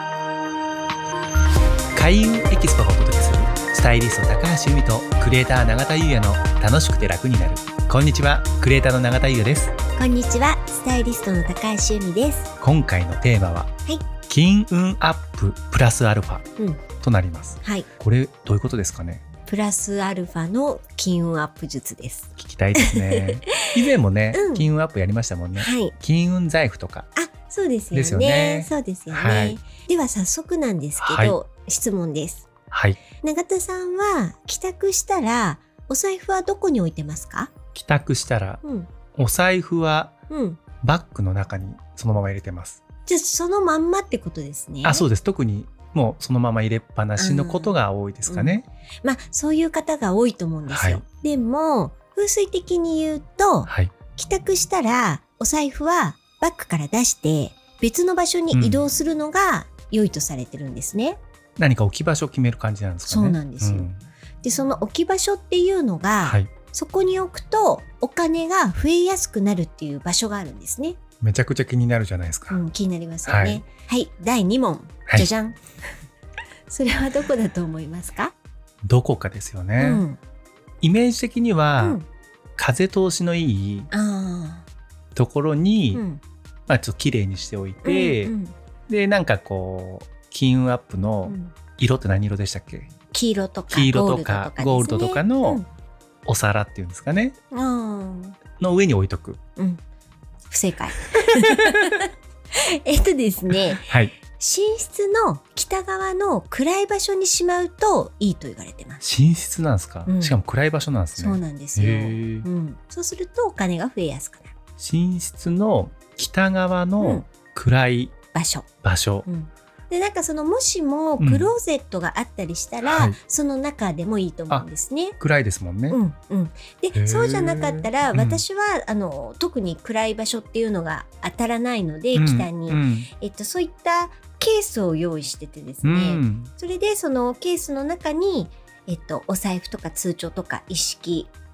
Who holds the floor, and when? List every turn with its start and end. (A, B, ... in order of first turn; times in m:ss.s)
0:01.9-0:09.7 A
0:10.0-0:12.5 B
0:12.6-0:13.7 A
0:14.3-0:16.4 A
0:16.6-0:16.8 B
0:17.0-0:19.2 A
0:17.6-0:17.9 B
0:19.4-0:24.7 B
0:22.4-0:27.1 A
0:25.6-0:25.9 B
0:27.2-0:32.5 B
0:27.9-0:29.6 A
0:31.0-0:31.4 A
0:32.7-0:33.0 A
0:33.2-0:37.5 B
0:37.7-0:38.6 A
0:38.6-0:38.9 B
0:39.2-0:40.1 A
0:40.3-0:40.6 B
0:40.8-0:42.8 A
0:43.0-0:45.0 B
0:44.8-0:48.6 A
0:47.2-0:47.8 B
0:48.3-1:01.2 B
0:50.7-0:51.0 A
0:53.7-0:53.9 A
0:58.5-0:58.8 A
1:01.6-1:04.0 A
1:03.0-1:03.9 B
1:04.4-1:11.0 B
1:06.2-1:06.5 A
1:11.2-1:12.6 A
1:12.5-1:15.6 B
1:13.2-1:13.6 A
1:16.7-1:18.3 B
1:18.8-1:20.0 A
1:19.8-1:20.2 B
1:20.8-1:22.0 A
1:21.8-1:22.0 B
1:22.6-1:23.9 A
1:23.9-1:24.7 B
1:25.1-1:26.0 A
1:25.9-1:26.2 B
1:26.7-1:28.3 A
1:27.8-1:28.5 B
1:28.9-1:32.9 A
1:31.2-1:31.5 B
1:33.1-1:35.6 B
1:33.7-1:35.6 A
1:36.2-1:37.3 A
1:37.5-1:38.4 B
1:38.6-1:39.4 A
1:40.5-1:43.8 B
1:41.3-1:42.0 A
1:43.8-1:44.2 A
1:44.4-1:49.0 B
1:49.0-1:52.4 A
1:50.1-1:50.4 B
1:51.2-1:54.5 B
1:54.8-1:58.1 A
1:57.0-1:57.3 B
1:58.3-1:58.7 B
1:58.8-1:59.2 A
1:59.2-2:05.2 B
2:01.2-2:01.5 A
2:02.8-2:03.2 A
2:05.2-2:06.0 A
2:05.9-2:21.3 B
2:06.9-2:08.4 A
2:12.1-2:13.1 A
2:15.8-2:16.5 A